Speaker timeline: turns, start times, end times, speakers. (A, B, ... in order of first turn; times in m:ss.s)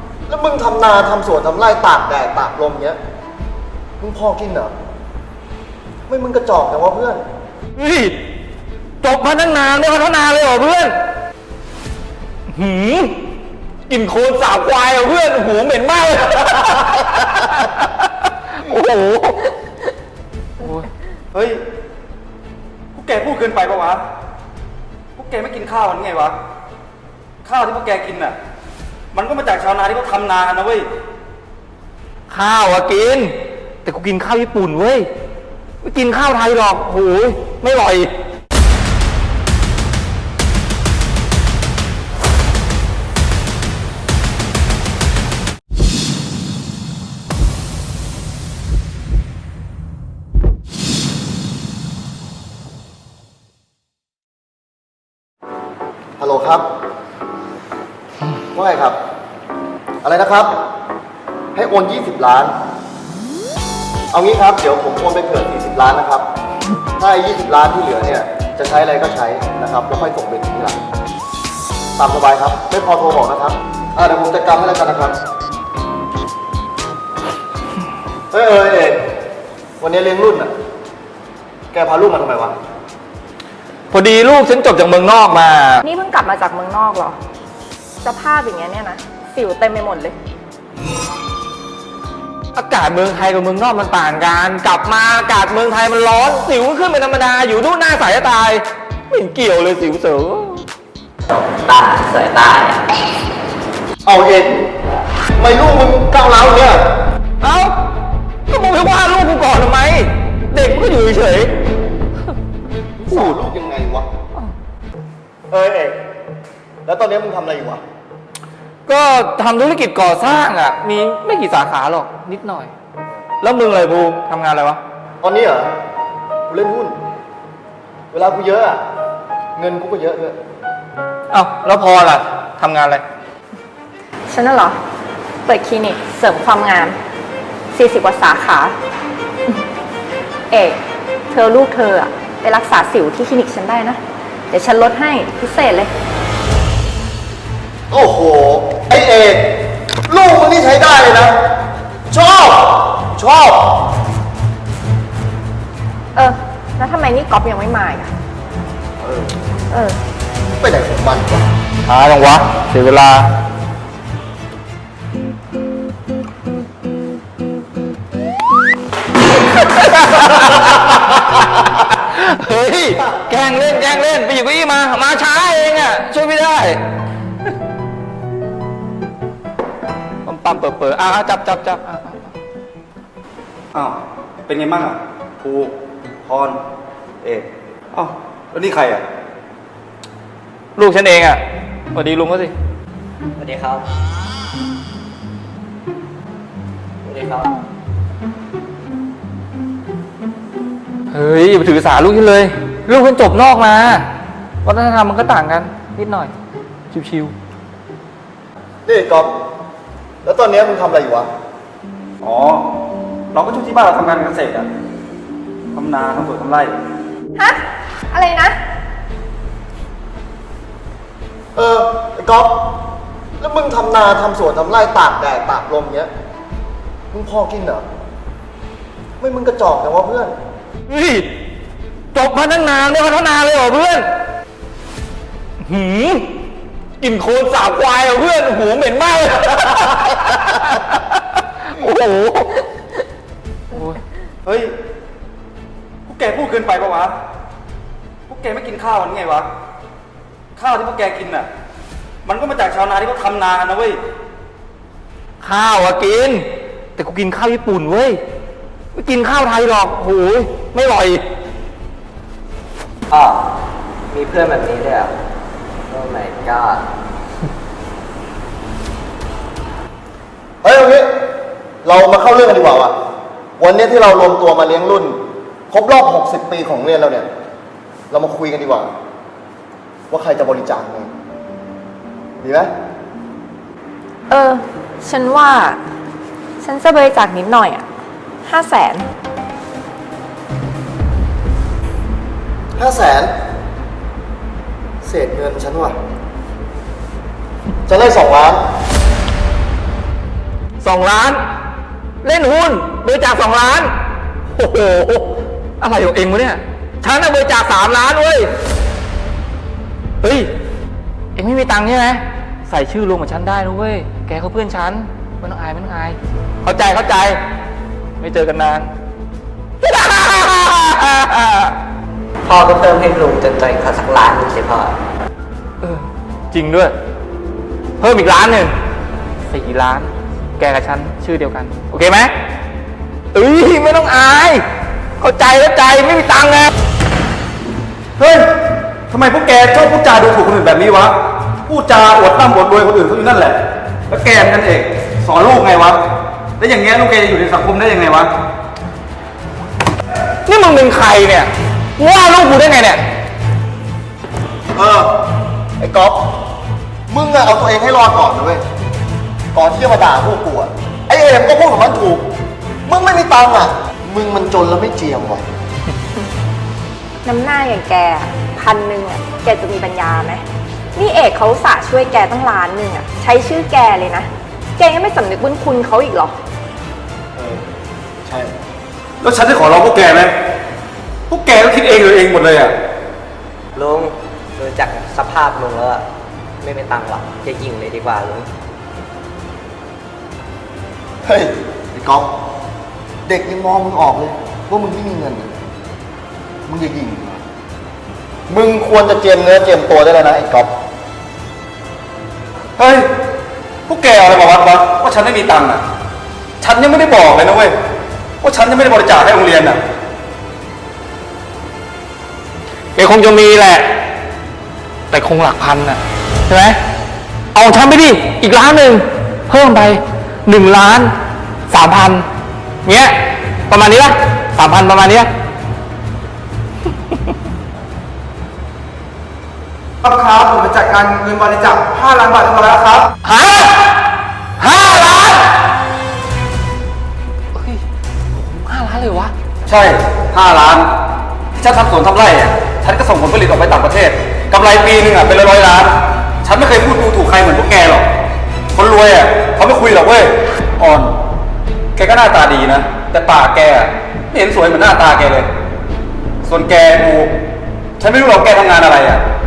0:00.3-0:03.0 A
0:04.0-0:04.7 A
0:06.1-0:07.2 A
0:07.8-0:08.2 B
0:09.0-0:11.0 B
0:12.5-0:13.2 B
0:13.9-0:19.5 B
0:20.6-0:20.9 B
0:21.3-0:21.6 C
0:22.9-0:24.0 C
0:25.2-0:26.4 C
0:27.4-0:28.4 C
0:29.1-0:30.9 C
0:32.3-0:35.1 B
0:35.8-0:38.1 B
0:56.2-0:56.6 A
0:58.5-0:59.0 A
1:00.0-1:00.5 A
1:01.5-1:02.5 A
1:04.1-1:06.2 A
1:07.0-1:10.8 A
1:12.0-1:15.1 A
1:18.3-1:19.0 A
1:19.8-1:20.5 A
1:21.7-1:22.6 A
1:23.9-1:25.8 B
1:25.8-1:27.2 D
1:28.0-1:30.2 D
1:32.5-1:40.6 B
1:41.3-1:42.8 E
1:44.0-1:44.5 A
1:45.4-1:46.8 A
1:47.4-1:47.7 B
1:48.5-1:51.5 B
1:53.0-1:53.4 B
1:53.0-1:54.0 A
1:55.5-1:56.0 A
1:56.8-1:57.8 A
1:58.8-2:02.7 B
2:03.4-2:04.8 B
2:05.2-2:05.7 A
2:06.5-2:07.0 A
2:08.1-2:08.8 A
2:09.6-2:10.4 A
2:11.3-2:13.0 B
2:14.3-2:14.8 D
2:15.5-2:17.0 D
2:17.7-2:18.7 D
2:20.5-2:20.8 D
2:21.3-2:24.0 D
2:24.5-2:25.9 D
2:27.9-2:31.4 A
2:32.1-2:33.8 A
2:36.1-2:38.1 D
2:39.0-2:39.3 A
2:39.7-2:40.0 D
2:40.6-2:41.5 A
2:41.8-2:43.3 B
2:49.5-2:56.8 B
3:00.2-3:02.3 B
3:03.7-3:05.7 C
3:06.2-3:06.6 C
3:07.2-3:09.0 C
3:10.8-3:11.4 B
3:11.9-3:12.5 B
3:13.4-3:13.8 E
3:17.0-3:17.6 E
3:21.1-3:24.1 B
3:24.6-3:26.3 B
3:26.9-3:27.3 B
3:28.8-3:29.3 A
3:30.2-3:31.3 A
3:32.2-3:32.7 C
3:33.3-3:34.7 C
3:35.7-3:36.7 C
3:37.4-3:38.6 D
3:41.5-3:42.6 A
3:43.4-3:46.1 A
3:47.1-3:47.8 A
3:49.2-3:50.4 A
3:50.9-3:51.3 B
3:52.1-3:54.1 B
3:55.6-3:56.3 B
3:57.0-4:02.7 B
4:03.7-4:04.0 B
4:04.4-4:04.7 C
4:06.1-4:07.1 C
4:08.3-4:09.5 C
4:10.6-4:11.5 C
4:12.2-4:14.0 C
4:15.4-4:18.2 B
4:18.9-4:21.2 B
4:23.1-4:23.4 E
4:24.1-4:25.1 E
4:25.9-4:26.8 E
4:30.6-4:31.1 A
4:31.8-4:32.9 A
4:33.6-4:35.2 A
4:35.7-4:37.3 A
4:38.1-4:38.9 A
4:40.1-4:41.1 A
4:42.4-4:42.7 A
4:44.3-4:45.8 D
4:46.6-4:47.8 D
4:48.4-4:49.0 D
4:52.8-4:53.3 A
4:55.0-4:56.0 A
4:57.9-4:58.6 A
5:00.8-5:01.4 B
5:02.2-5:03.9 B
5:04.5-5:08.5 B
5:10.2-5:10.5 B
5:11.4-5:17.4 B
5:18.2-5:18.9 B
5:19.8-5:21.8 B
5:22.4-5:24.9 E
5:25.8-5:26.9 B
5:28.0-5:28.7 B
5:29.5-5:32.3 B
5:33.3-5:34.6 B
5:35.2-5:36.7 B
5:38.2-5:38.5 C
5:39.1-5:41.1 C
5:41.6-5:46.0 C
5:46.6-5:48.3 C
5:50.4-5:53.0 B
5:54.7-5:55.1 A
5:55.8-5:56.2 A
5:57.1-5:58.6 A
5:59.5-6:02.2 A
6:02.9-6:05.4 A
6:07.2-6:10.4 D
6:10.9-6:16.3 D
6:17.4-6:17.6 A
6:18.2-6:18.5 A
6:19.2-6:20.3 C
6:21.3-6:22.7 C
6:23.7-6:26.0 E
6:26.6-6:28.5 E
6:31.2-6:32.3 A
6:33.3-6:35.5 A
6:36.7-6:37.4 A
6:38.5-6:40.7 A
6:42.8-6:43.1 C
6:43.9-6:45.8 C
6:46.6-6:47.7 C
6:48.4-6:49.8 C
6:52.9-6:53.9 B
6:55.1-6:56.8 B
6:57.5-7:01.1 B
7:01.7-7:02.2 B
7:02.8-7:03.1 B
7:03.7-7:05.3 B
7:10.0-7:13.1 F
7:13.2-7:13.9 B
7:14.6-7:15.5 B
7:17.5-7:17.8 B
7:18.6-7:19.3 B
7:19.6-7:20.9 C
7:21.5-7:28.1 C
7:28.7-7:31.1 C
7:32.0-7:35.5 C
7:36.4-7:37.3 C
7:38.0-7:39.2 C